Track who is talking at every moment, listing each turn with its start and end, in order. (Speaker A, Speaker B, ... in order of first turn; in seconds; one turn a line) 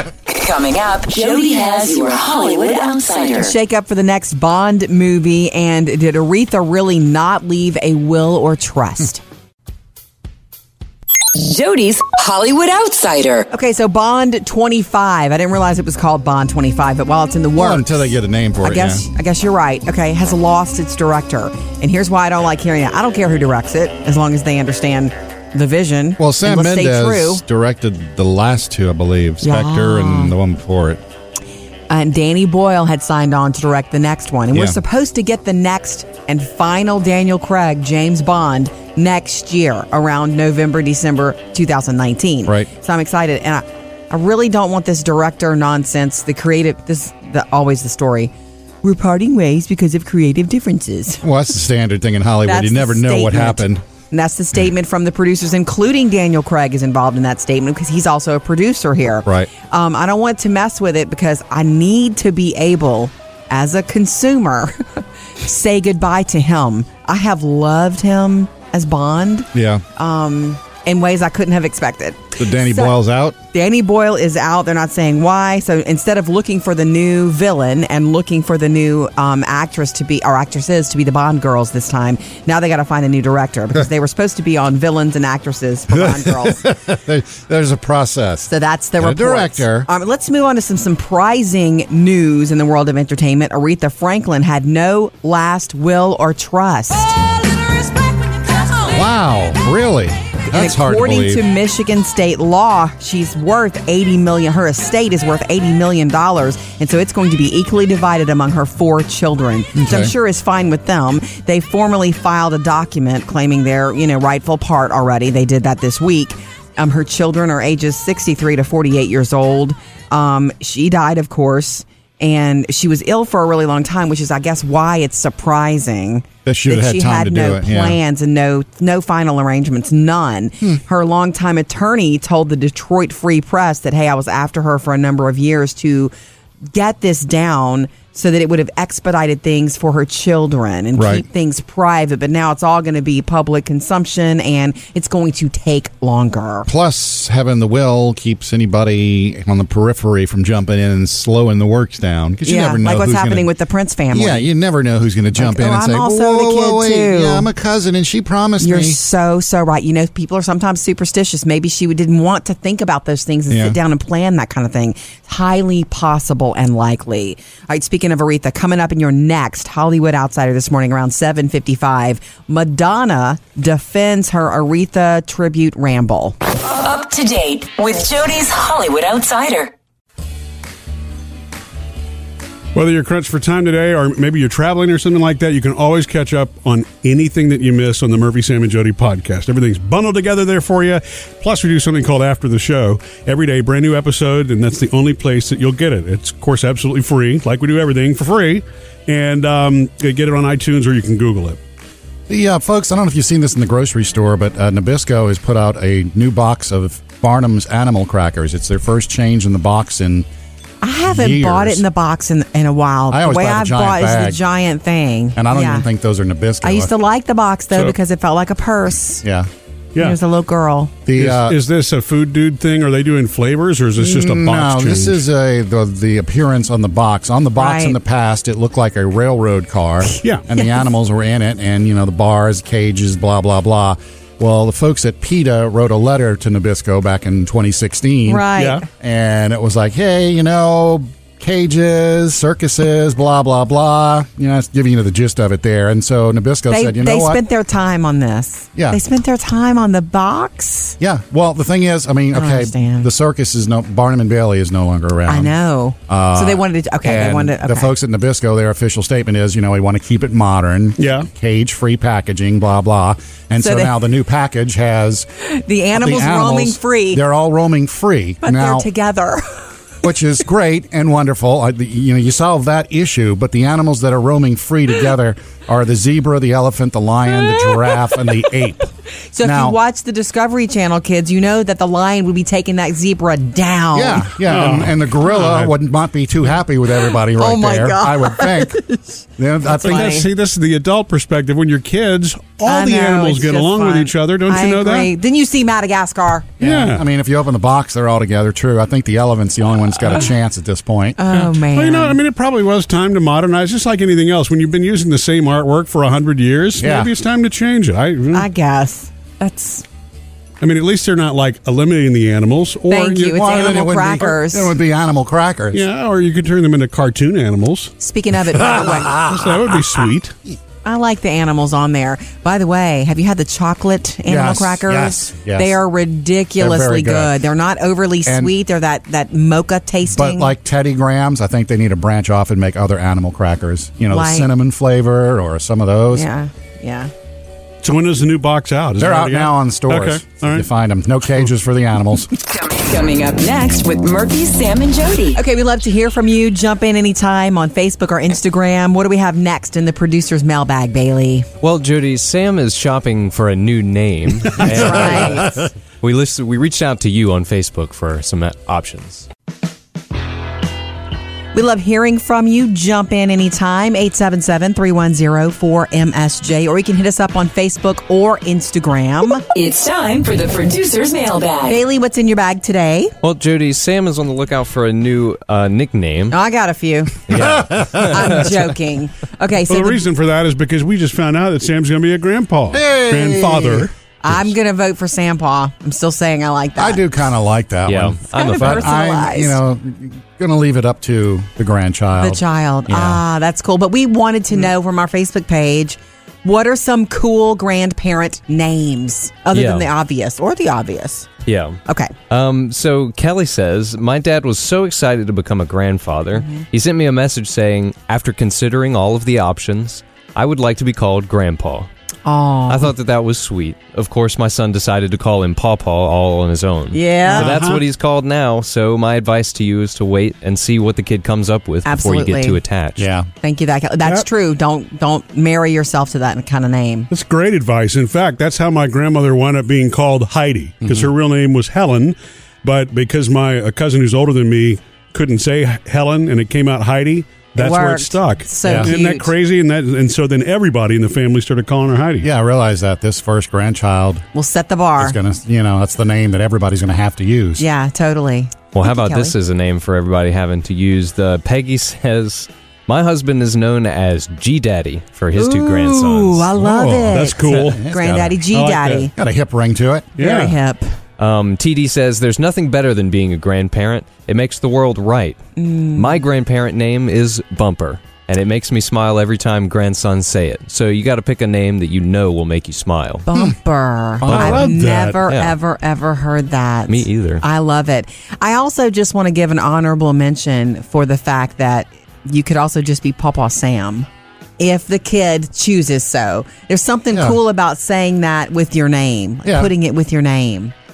Speaker A: 0.2-3.5
Speaker B: 3.4-9.2
Speaker A: 11.3-13.5
Speaker B: 13.5-18.1
Speaker C: 17.6-19.0
Speaker B: 18.6-27.4
Speaker C: 26.2-31.0
Speaker B: 29.4-30.3
Speaker B: 31.9-48.3
Speaker C: 34.5-34.8
Speaker B: 48.8-51.2
Speaker C: 51.2-53.8
Speaker B: 52.4-72.9
Speaker C: 59.2-59.5
Speaker C: 69.5-69.8
Speaker C: 72.4-73.4
Speaker B: 73.5-86.6
Speaker C: 85.9-89.9
Speaker B: 88.5-97.2
Speaker C: 98.9-101.4
Speaker B: 100.5-136.1
Speaker C: 109.8-110.1
Speaker C: 126.5-128.0
Speaker B: 136.7-146.7
Speaker C: 140.9-141.2
Speaker C: 146.7-153.5
Speaker B: 152.4-154.5
Speaker C: 154.1-159.0
Speaker B: 155.3-157.5
Speaker B: 158.6-176.4
Speaker C: 163.5-163.8
Speaker A: 176.6-179.7
Speaker D: 182.7-201.6
Speaker C: 202.3-210.3
Speaker B: 210.8-215.9
Speaker C: 211.1-211.8
Speaker C: 213.1-214.4
Speaker C: 215.3-216.9
Speaker B: 216.6-219.2
Speaker C: 219.2-219.5
Speaker B: 220.0-220.9
Speaker C: 221.1-221.6
Speaker D: 221.1-225.2
Speaker C: 224.0-247.4
Speaker B: 227.6-228.0
Speaker B: 238.3-238.8
Speaker D: 238.6-238.8
Speaker B: 246.7-250.9
Speaker C: 251.0-255.5
Speaker B: 252.3-253.1
Speaker B: 255.3-257.9
Speaker C: 256.1-265.3
Speaker D: 261.0-261.3
Speaker B: 263.6-264.0
Speaker B: 265.4-267.2
Speaker C: 265.9-268.9
Speaker B: 268.4-269.7
Speaker C: 270.0-279.8
Speaker B: 277.5-277.9
Speaker B: 279.3-284.3
Speaker C: 283.9-288.8
Speaker D: 284.4-285.7
Speaker B: 287.1-289.0
Speaker C: 289.4-290.1
Speaker B: 289.8-290.3
Speaker D: 289.8-295.1
Speaker B: 292.6-296.6
Speaker D: 296.6-297.0
Speaker C: 296.6-301.2
Speaker B: 301.2-302.2
Speaker D: 301.3-308.5
Speaker C: 306.8-307.1
Speaker B: 308.3-309.8
Speaker D: 310.6-313.4
Speaker B: 312.9-314.7
Speaker C: 313.3-315.9
Speaker D: 315.7-317.9
Speaker B: 318.0-319.2
Speaker C: 318.6-319.6
Speaker D: 319.2-320.3
Speaker B: 320.8-330.5
Speaker C: 324.3-325.8
Speaker C: 326.6-327.4
Speaker C: 328.2-328.5
Speaker C: 330.1-336.2
Speaker B: 334.1-334.5
Speaker B: 336.1-337.1
Speaker D: 337.8-340.6
Speaker C: 339.0-342.3
Speaker A: 342.4-345.4
Speaker B: 345.3-351.5
Speaker E: 351.6-359.3
Speaker B: 354.6-355.6
Speaker C: 354.6-355.6
Speaker B: 361.5-369.4
Speaker A: 369.5-371.8
Speaker B: 371.6-373.1
Speaker E: 373.2-376.4
Speaker B: 376.3-380.0
Speaker E: 377.3-378.2
Speaker C: 377.3-378.4
Speaker D: 379.7-383.9
Speaker C: 382.7-383.9
Speaker B: 384.2-387.0
Speaker C: 386.8-393.2
Speaker E: 387.9-388.9
Speaker B: 388.3-389.6
Speaker B: 392.2-401.3
Speaker E: 399.5-399.9
Speaker E: 401.4-411.9
Speaker B: 401.9-402.1
Speaker B: 406.4-406.6
Speaker B: 412.2-412.9
Speaker E: 412.7-423.1
Speaker B: 416.9-417.5
Speaker D: 417.3-417.8
Speaker B: 421.9-422.6
Speaker C: 423.0-423.3
Speaker B: 423.4-427.1
Speaker D: 427.1-442.3
Speaker C: 430.8-431.1
Speaker B: 437.5-439.3
Speaker C: 438.6-438.9
Speaker C: 442.2-444.2
Speaker B: 444.3-445.2
Speaker C: 445.0-447.6
Speaker B: 447.6-449.3
Speaker E: 448.7-456.5
Speaker B: 455.4-459.1
Speaker C: 456.6-458.4
Speaker D: 457.0-457.8
Speaker D: 458.5-459.1
Speaker C: 459.1-460.1
Speaker D: 460.2-460.6
Speaker B: 460.2-460.9
Speaker E: 461.2-465.4
Speaker B: 465.6-466.2
Speaker E: 465.9-473.2
Speaker B: 473.3-484.1
Speaker C: 474.2-474.7
Speaker D: 474.2-475.2
Speaker E: 475.3-475.5
Speaker E: 476.9-477.4
Speaker B: 484.6-490.7
Speaker C: 487.1-487.4
Speaker C: 489.4-489.7